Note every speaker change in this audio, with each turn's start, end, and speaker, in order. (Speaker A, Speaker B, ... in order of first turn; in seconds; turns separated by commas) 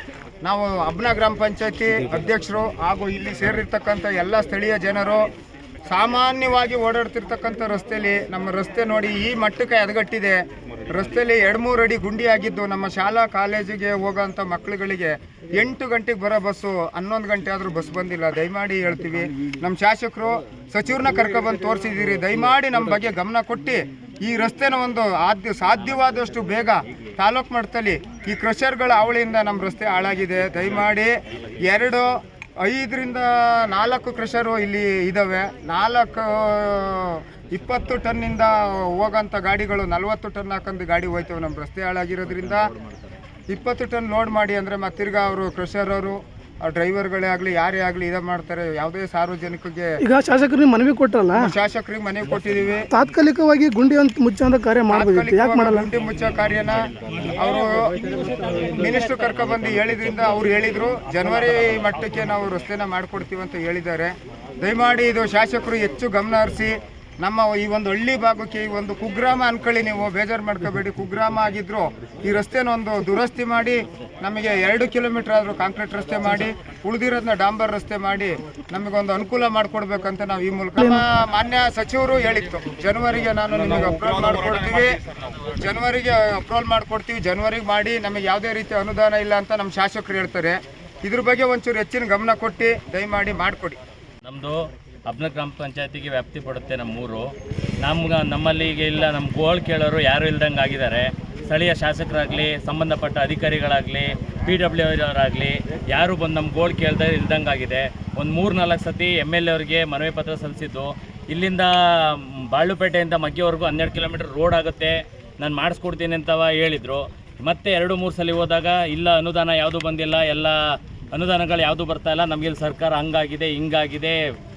Speaker A: 0.4-5.3, Speaker A: 5.9-31.1, Speaker A: 31.6-42.7, Speaker A: 43.5-50.0, Speaker B: 50.0-51.5, Speaker A: 51.4-52.9, Speaker B: 52.9-55.9, Speaker A: 54.9-93.8, Speaker C: 94.2-97.3, Speaker C: 97.8-120.6, Speaker C: 121.1-124.2